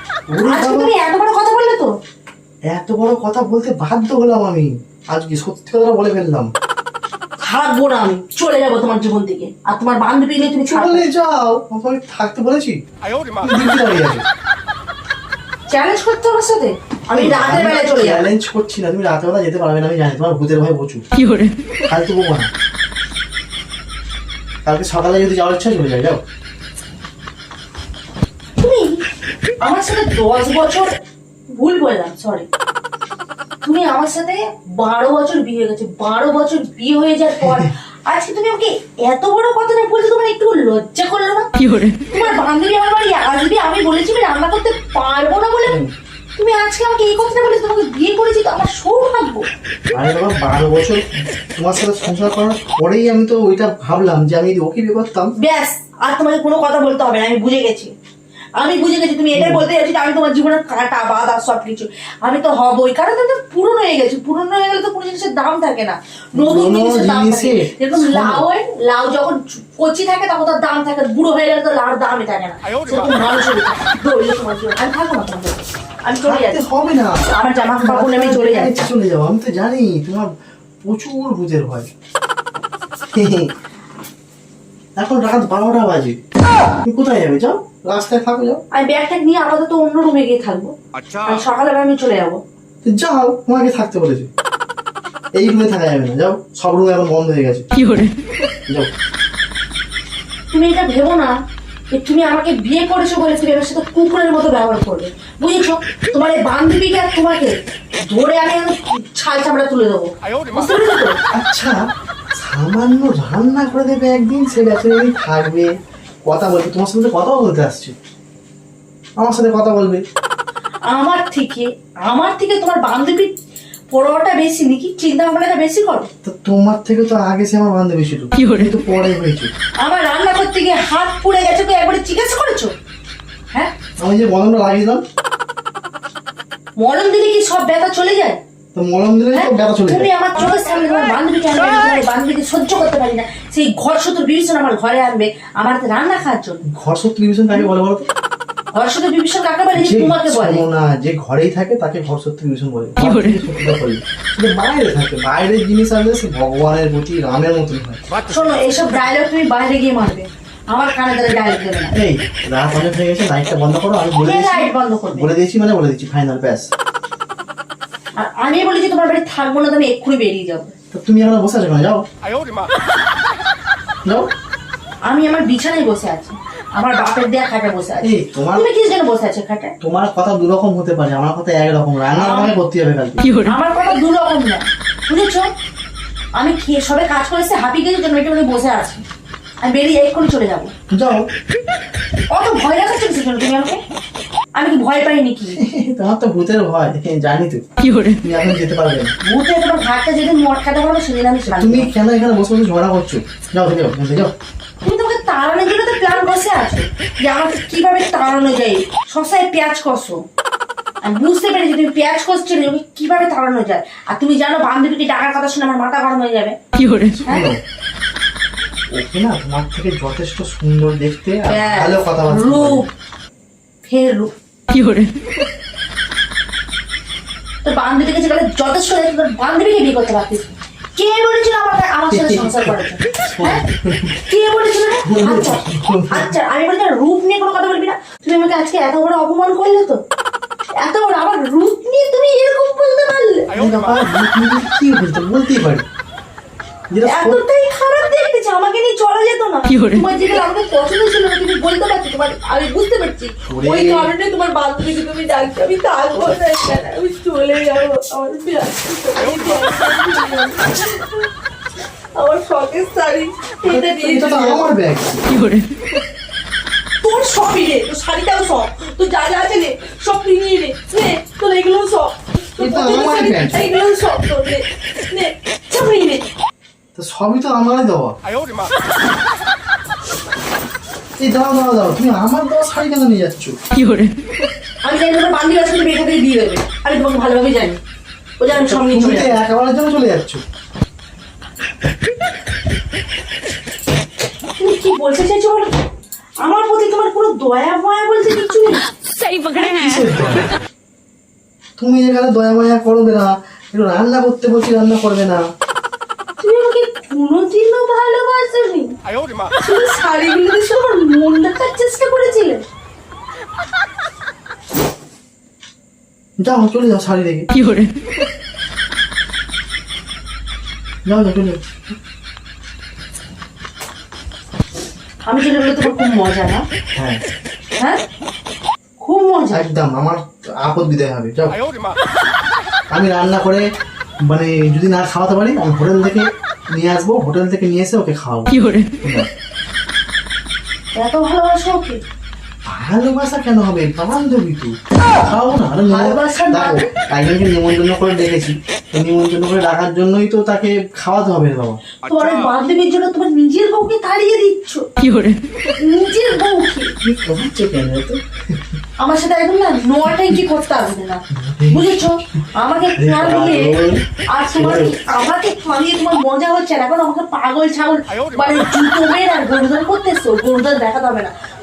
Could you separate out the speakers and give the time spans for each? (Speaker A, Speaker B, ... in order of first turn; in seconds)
Speaker A: 0.3-0.9, 2.7-6.5, 10.7-12.8, 13.4-14.2, 17.1-21.1, 21.9-22.5, 24.6-26.2, 45.7-45.9, 49.9-55.3, 59.3-59.6, 66.3-68.4, 76.2-81.9, 83.1-83.5, 85.0-86.2, 86.8-88.6, 92.8-94.3, 95.3-97.7, 111.3-111.8, 112.3-115.7, 116.2-118.0, 119.2-120.0, 126.2-129.5, 134.0-135.0, 138.7-140.1, 146.6-148.1, 149.7-158.0, 161.9-166.7, 170.9-172.0, 178.0-178.7, 179.8-183.3, 190.9-191.3, 195.5-197.6, 198.2-199.1, 201.5-204.3, 217.1-217.6, 218.9-222.8, 232.1-234.2, 235.0-236.3, 243.5-245.8, 246.9-247.4, 253.5-254.1, 263.7-265.3, 272.6-273.6, 276.9-278.1, 281.2-283.6, 288.5-290.4, 299.6-300.5, 301.8-305.4, 316.4-317.5, 321.0-321.9, 326.9-327.2, 329.5-331.6, 332.9-333.7, 334.2-339.3, 342.7-351.8, 357.0-358.6, 361.3-361.9, 362.9-364.9
Speaker B: 0.4-2.0, 7.4-11.1, 15.7-18.2, 28.6-29.0, 29.6-31.0, 31.5-32.5, 33.6-41.5, 42.1-45.8, 46.4-49.5, 55.4-57.9, 58.5-76.6, 77.3-78.7, 88.7-90.7, 91.2-92.4, 100.5-101.3, 101.9-107.5, 108.1-111.2, 120.9-123.3, 123.9-126.1, 129.8-132.7, 136.8-138.4, 139.3-146.6, 148.7-150.6, 158.2-161.9, 164.2-165.3, 168.2-170.7, 175.1-179.7, 182.1-182.5, 183.4-185.5, 186.3-189.0, 189.6-190.7, 192.3-193.8, 194.6-195.6, 199.2-201.9, 204.8-210.2, 211.0-216.6, 221.4-222.9, 223.8-224.3, 227.6-233.6, 234.3-240.0, 240.8-243.5, 247.0-261.3, 262.1-264.7, 267.0-276.3, 284.8-287.8, 288.4-289.4, 294.6-295.7, 296.4-299.7, 306.4-308.9, 309.6-312.6, 325.3-326.6, 329.0-329.7, 340.9-342.0, 345.9-346.9, 352.0-354.9, 355.8-356.9, 359.0-371.3